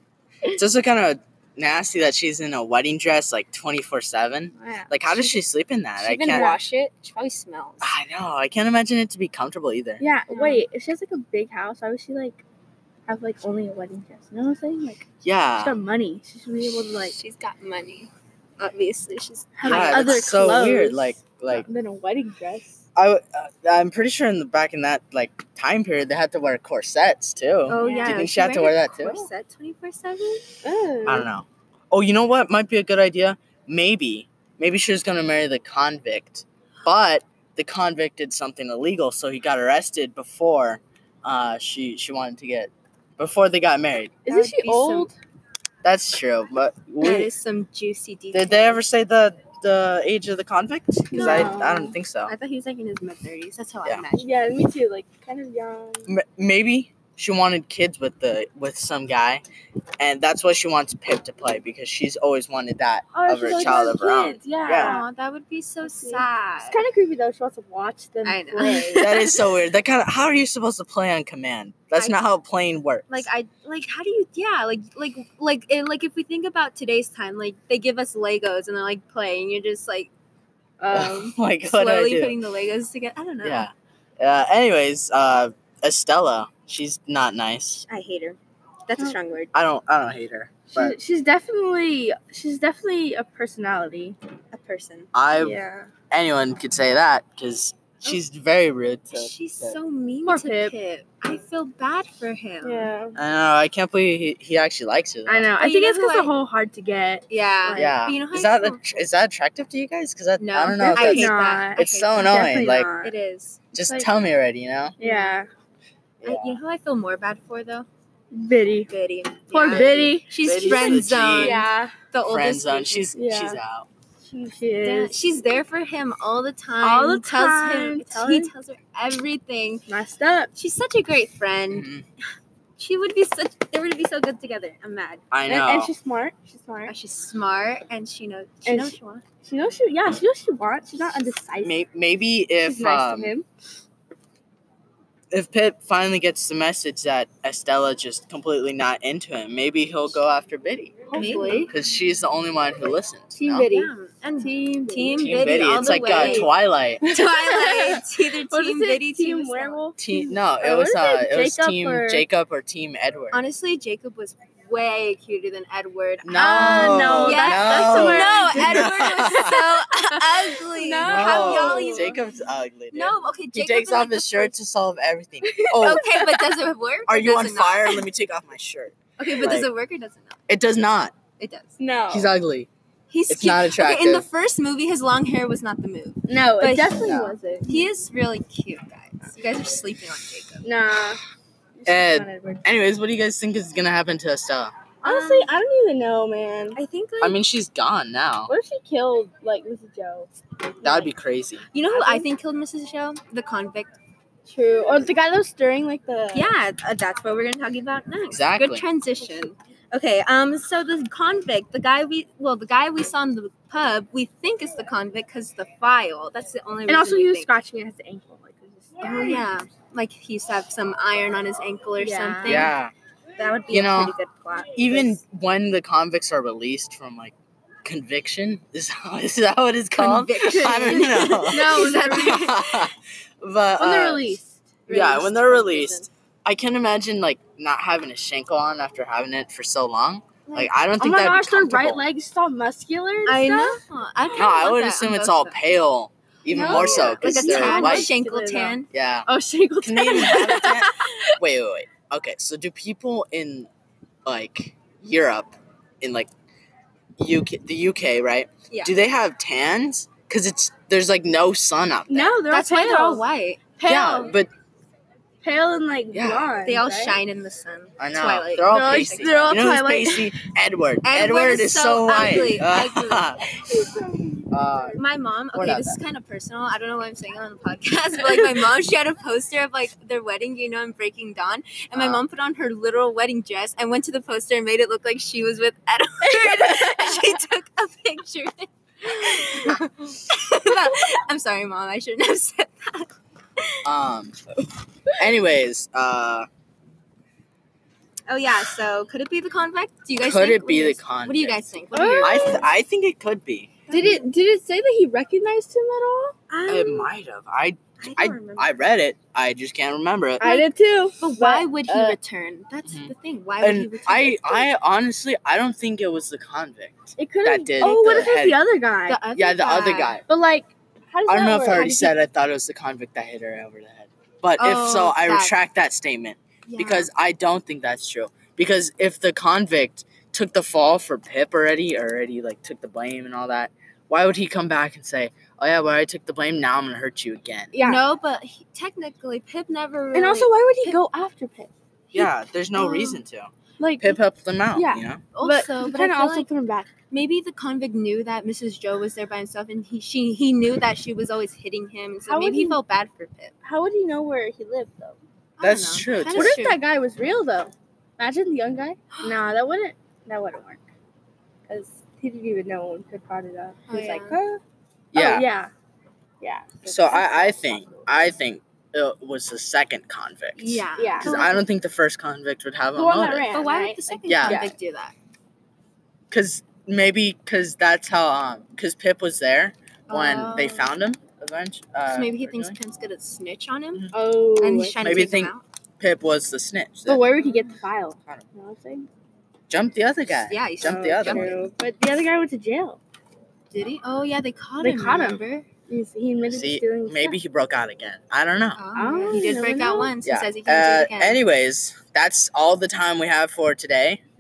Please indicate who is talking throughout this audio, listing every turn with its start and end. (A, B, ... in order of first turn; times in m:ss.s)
0:00.5-0:06.5 A
0:04.6-0:05.3 B
0:06.0-0:08.0 C
0:06.3-0:06.6 B
0:07.8-0:10.0 A
0:10.0-0:12.4 B
0:10.3-0:10.6 C
0:13.1-0:15.0 B
0:15.2-0:15.8 A
0:15.6-0:17.2 B
0:16.6-0:20.3 C
0:19.6-0:22.8 B
0:19.6-0:21.7 A
0:22.9-0:29.3 A
0:27.7-0:30.5 C
0:27.7-0:28.3 B
0:30.6-0:31.3 B
0:31.0-0:44.2 A
0:44.2-0:45.1 B
0:44.3-0:45.1 C
0:45.8-0:47.3 A
0:47.0-0:48.8 C
0:48.3-0:52.3 A
0:51.1-0:51.6 C
0:51.1-0:52.0 B
0:52.2-0:54.3 C
0:54.1-0:56.1 B
0:56.1-0:59.4 A
1:00.0-1:05.0 A
1:03.1-1:05.0 B
1:04.8-1:06.8 C
1:05.8-1:09.1 B
1:08.2-1:09.5 C
1:09.0-1:13.3 A
1:11.9-1:12.2 C
1:13.1-1:20.1 C
1:20.8-1:21.3 B
1:20.9-1:22.4 A
1:21.6-1:23.7 C
1:23.4-1:27.8 A
1:27.7-1:29.5 C
1:29.5-1:31.0 A
1:30.7-1:34.2 B
1:34.5-1:35.1 C
1:35.1-1:39.8 A
1:35.3-1:35.9 B
1:39.1-1:42.9 C
1:40.2-1:40.7 B
1:42.6-1:43.2 B
1:43.1-1:45.5 A
1:45.2-1:48.0 B
1:45.6-1:46.3 C
1:47.3-1:49.0 C
1:47.8-1:52.9 A
1:50.4-1:52.5 C
1:50.8-1:53.1 B
1:53.0-1:53.6 C
1:53.7-1:55.0 A
1:55.0-1:55.5 B
1:55.0-1:55.3 C
1:56.2-1:56.6 A
1:56.2-1:57.9 C
1:58.3-1:58.9 B
1:58.8-2:03.1 C
1:59.5-2:01.9 B
1:59.7-2:01.6 A
2:02.2-2:03.9 A
2:03.1-2:03.6 B
2:04.3-2:05.2 B
2:04.8-2:09.8 C
2:06.8-2:08.5 B
2:09.9-2:10.5 B
2:10.5-2:11.9 C
2:11.7-2:12.0 A
2:12.8-2:15.2 C
2:15.3-2:15.9 A
2:15.5-2:16.9 B
2:16.8-2:19.2 C
2:18.6-2:21.8 B
2:21.6-2:23.3 A
2:22.6-2:23.4 B
2:25.3-2:33.7 A
2:31.1-2:31.7 C
2:31.1-2:31.7 B
2:33.4-2:36.5 B
2:33.6-2:39.8 C
2:35.1-2:37.2 A
2:37.2-2:42.2 B
2:40.0-2:43.4 A
2:43.3-2:52.2 C
2:46.2-2:49.6 A
2:46.3-2:49.2 B
2:50.6-2:52.2 B
2:51.0-2:56.0 A
2:52.9-2:54.6 C
2:55.4-2:56.4 B
2:55.7-2:58.1 C
2:57.1-2:59.7 A
2:59.2-3:00.4 C
3:00.5-3:01.1 A
3:01.4-3:01.7 C
3:01.8-3:02.3 B
3:02.1-3:02.7 A
3:03.1-3:07.0 C
3:03.3-3:04.2 A
3:06.3-3:07.9 B
3:07.0-3:07.4 A
3:07.6-3:10.7 C
3:10.6-3:11.2 B
3:11.8-3:12.7 B
3:11.8-3:14.7 A
3:15.0-3:16.8 B
3:15.0-3:15.5 C
3:16.7-3:17.4 C
3:17.2-3:18.5 A
3:18.5-3:20.3 B
3:20.8-3:21.1 B
3:20.8-3:21.7 A
3:21.7-3:23.9 C
3:21.8-3:22.3 B
3:24.5-3:26.6 B
3:26.3-3:37.5 C
3:28.3-3:28.8 A
3:36.9-3:39.6 B
3:39.0-3:42.7 C
3:42.0-3:42.7 B
3:42.4-3:42.9 A
3:43.4-3:45.1 C
3:43.7-3:44.1 A
3:44.8-4:02.0 A
3:50.0-3:52.9 C
3:50.6-3:52.4 B
3:53.8-3:55.4 B
3:54.9-3:56.0 C
4:00.4-4:00.7 C
4:01.0-4:03.8 B
4:03.2-4:05.6 C
4:04.4-4:08.1 A
4:06.5-4:10.8 B
4:06.5-4:08.9 C
4:08.9-4:09.3 A
4:09.8-4:13.7 A
4:10.1-4:11.2 C
4:14.2-4:16.3 A
4:17.2-4:22.4 A
4:22.1-4:23.2 B
4:22.5-4:23.6 C
4:23.8-4:24.3 B
4:23.8-4:24.5 A
4:25.4-4:27.2 B
4:26.1-4:26.5 A
4:26.6-4:29.6 C
4:28.0-4:33.5 A
4:28.6-4:30.3 B
4:31.0-4:33.2 C
4:32.2-4:32.4 B
4:33.5-4:35.0 B
4:34.5-4:35.0 A
4:35.0-4:53.1 C
4:35.5-4:36.0 A
4:41.9-4:42.2 A
4:46.2-4:47.3 B
4:53.8-4:54.4 A
4:55.2-4:56.5 A
4:58.3-5:02.6 C
5:00.2-5:01.6 A
5:01.9-5:02.6 B
5:02.2-5:03.8 A
5:03.9-5:04.2 C
5:03.9-5:06.3 B
5:06.5-5:07.1 C
5:06.7-5:10.5 A
5:08.0-5:08.8 C
5:10.4-5:12.2 B
5:10.4-5:14.8 C
5:12.9-5:18.6 A
5:17.2-5:19.2 B
5:17.8-5:18.3 C
5:19.0-5:20.2 C
5:19.3-5:20.2 A
5:20.3-5:22.2 B
5:21.3-5:37.7 A
5:24.6-5:25.5 C
5:26.7-5:27.1 C
5:37.7-5:38.0 B
5:37.8-5:41.0 C
5:40.1-5:43.2 B
5:42.1-5:45.3 A
5:43.8-5:44.2 B
5:44.7-5:46.9 B
5:45.3-5:46.5 C
5:47.1-5:53.5 C
5:52.2-5:52.8 B
5:53.6-5:55.2 B
5:55.6-5:56.8 C
5:55.6-5:56.6 A
5:56.3-6:00.8 B
5:59.1-5:59.4 C
6:01.7-6:04.6 B
6:03.9-6:04.4 C
6:05.1-6:05.4 A
6:05.1-6:05.7 B
6:06.4-6:08.0 B
6:06.8-6:13.5 A
6:10.6-6:11.6 C
6:11.0-6:11.4 B
6:12.9-6:14.8 B
6:13.5-6:15.1 C
6:14.3-6:14.6 A
6:16.3-6:22.8 A
6:20.1-6:20.9 C
6:22.0-6:24.0 C
6:24.1-6:25.2 B
6:24.6-6:25.6 C
6:25.0-6:27.3 A
6:27.0-6:29.1 B
6:29.7-6:31.6 A
6:30.5-6:31.6 C
6:30.8-6:33.0 B
6:33.7-6:35.7 C
6:34.8-6:37.4 B
6:36.5-6:38.8 A
6:38.8-6:41.4 C
6:38.9-6:40.2 B
6:40.2-6:44.2 A